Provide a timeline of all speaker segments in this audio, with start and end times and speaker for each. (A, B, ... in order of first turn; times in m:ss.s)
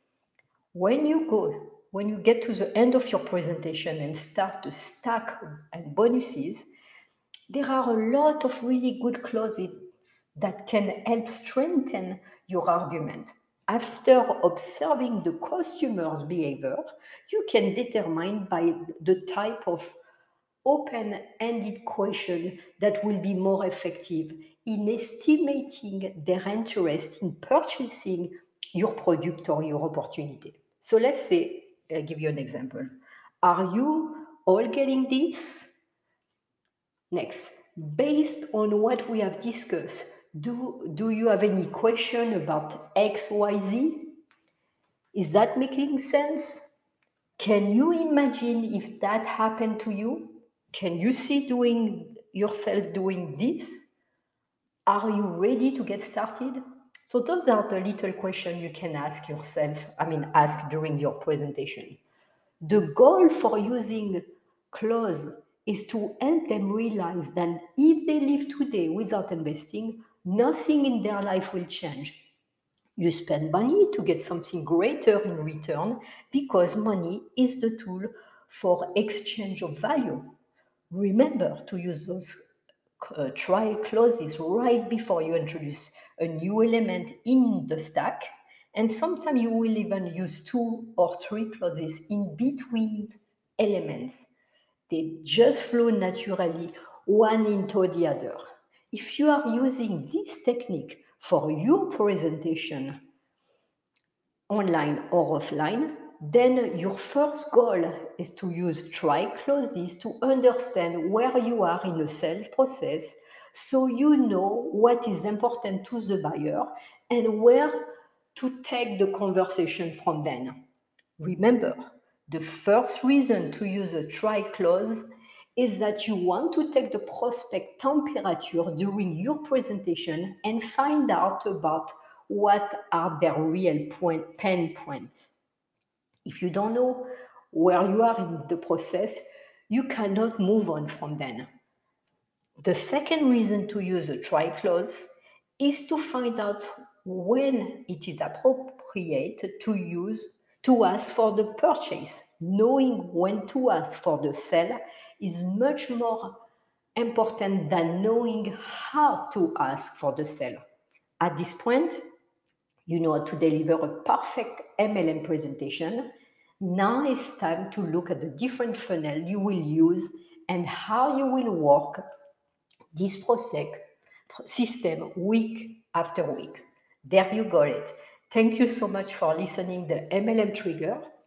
0:00.7-0:06.6 A
0:07.5-0:20.0 A
0:20.6-0:35.7 A
0:37.1-0:44.2 A
0:45.1-0:46.7 A
0:47.4-0:53.9 A
0:54.8-1:02.0 A
1:02.6-1:12.2 A
1:13.0-1:20.3 A
1:20.9-1:22.4 A
1:23.0-1:34.2 A
1:34.9-1:43.0 A
1:44.5-2:00.6 A
2:01.2-2:15.3 A
2:16.2-2:21.5 A
2:22.6-2:36.4 A
2:37.0-2:40.6 A
2:41.2-2:42.0 A
2:42.8-2:46.1 A
2:46.6-2:52.0 A
2:52.9-2:53.8 A
2:54.4-3:01.0 A